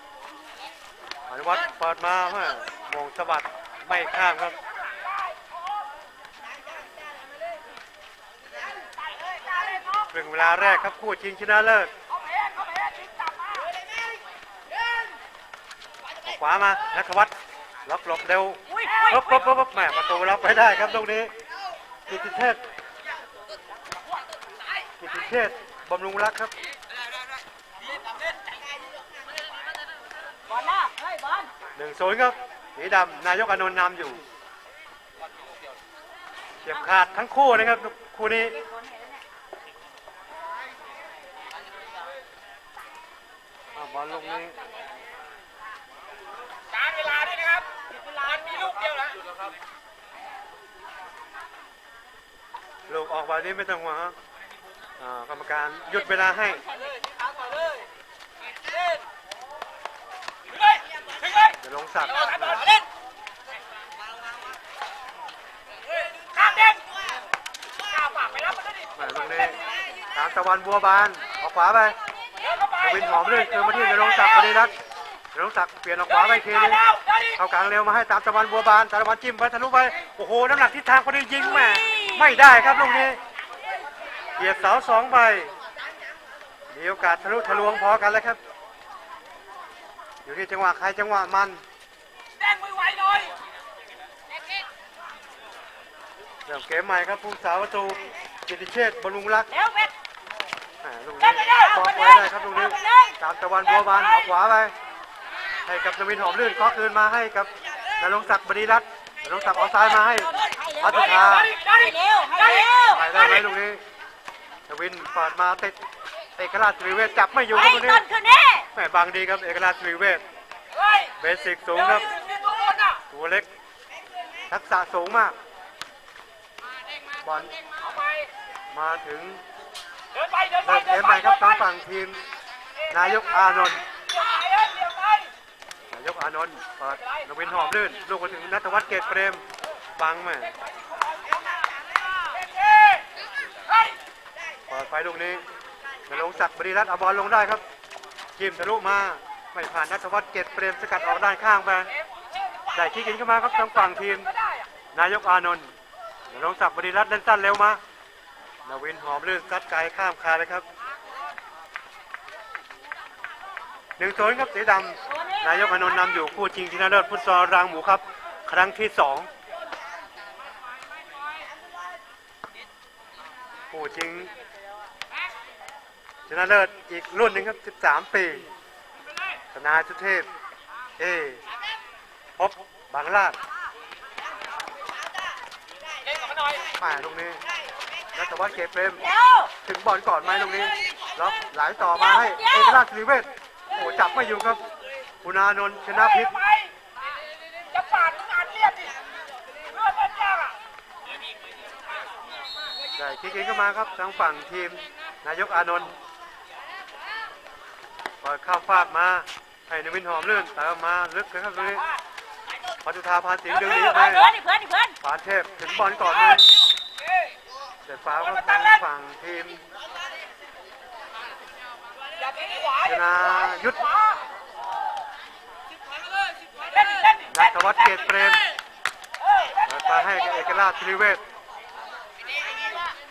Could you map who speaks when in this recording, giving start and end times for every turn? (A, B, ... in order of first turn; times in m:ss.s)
0:01.3-0:04.6 A
0:05.0-0:05.5 B
0:09.4-0:09.8 B
0:10.1-0:11.9 A
0:12.3-0:13.7 B
0:16.2-0:21.3 A
0:18.7-0:19.2 C
0:22.1-0:22.6 A
0:25.0-0:26.5 A
0:30.5-0:31.5 C
0:31.8-0:34.2 A
0:36.6-0:38.6 A
0:38.7-0:39.1 C
0:43.8-0:44.6 A
0:46.8-0:49.1 B
0:52.9-0:54.2 A
0:55.0-0:56.6 A
1:01.6-1:02.7 A
1:06.3-1:06.9 B
1:07.9-1:08.9 B
1:09.0-1:09.6 A
1:10.1-1:12.0 A
1:12.8-1:14.8 A
1:15.3-1:16.8 A
1:16.9-1:17.1 B
1:17.3-1:23.2 A
1:21.7-1:22.4 C
1:24.4-1:25.5 A
1:26.7-1:28.4 A
1:30.2-1:31.6 A
1:32.4-1:33.3 B
1:36.5-1:39.5 A
1:39.5-1:39.9 C
1:40.8-1:44.7 A
1:41.4-1:43.2 C
1:45.6-1:51.5 A
1:50.3-1:53.0 C
1:51.2-1:51.7 B
1:52.9-1:53.8 A
1:54.7-1:55.8 A
1:56.4-1:58.0 A
1:57.5-1:58.7 C
1:58.7-2:00.2 A
2:01.2-2:02.2 A
2:02.2-2:02.9 B
2:03.1-2:03.5 A
2:04.5-2:05.4 A
2:07.2-2:07.5 A
2:07.9-2:08.3 B
2:08.7-2:09.4 A
2:10.2-2:10.5 B
2:10.6-2:12.2 A
2:12.9-2:13.8 A
2:14.1-2:15.3 B
2:15.9-2:19.4 A
2:20.0-2:20.6 A
2:22.3-2:23.0 B
2:24.7-2:25.4 A
2:26.1-2:27.6 A
2:28.4-2:31.9 A
2:32.4-2:32.7 B
2:32.7-2:34.3 A
2:34.9-2:35.7 A
2:36.3-2:37.8 A
2:38.6-2:40.6 A
2:44.0-2:49.3 A
2:53.7-2:54.3 A
2:56.3-2:58.5 A
2:59.5-3:00.3 A
3:01.0-3:01.4 A
3:02.4-3:03.4 A
3:06.1-3:06.6 B
3:06.7-3:07.4 A
3:08.1-3:09.1 A
3:09.1-3:09.5 C
3:09.6-3:14.6 A
3:12.1-3:12.7 C
3:15.2-3:16.4 A
3:17.7-3:19.0 B
3:19.7-3:20.5 B
3:23.0-3:25.9 A
3:28.2-3:31.9 A
3:32.8-3:34.4 A
3:33.7-3:35.0 C
3:35.0-3:36.5 A
3:37.8-3:39.6 A
3:42.3-3:42.7 B
3:42.8-3:43.9 A
3:46.7-3:47.2 B
3:47.3-3:48.4 A
3:49.6-3:51.2 A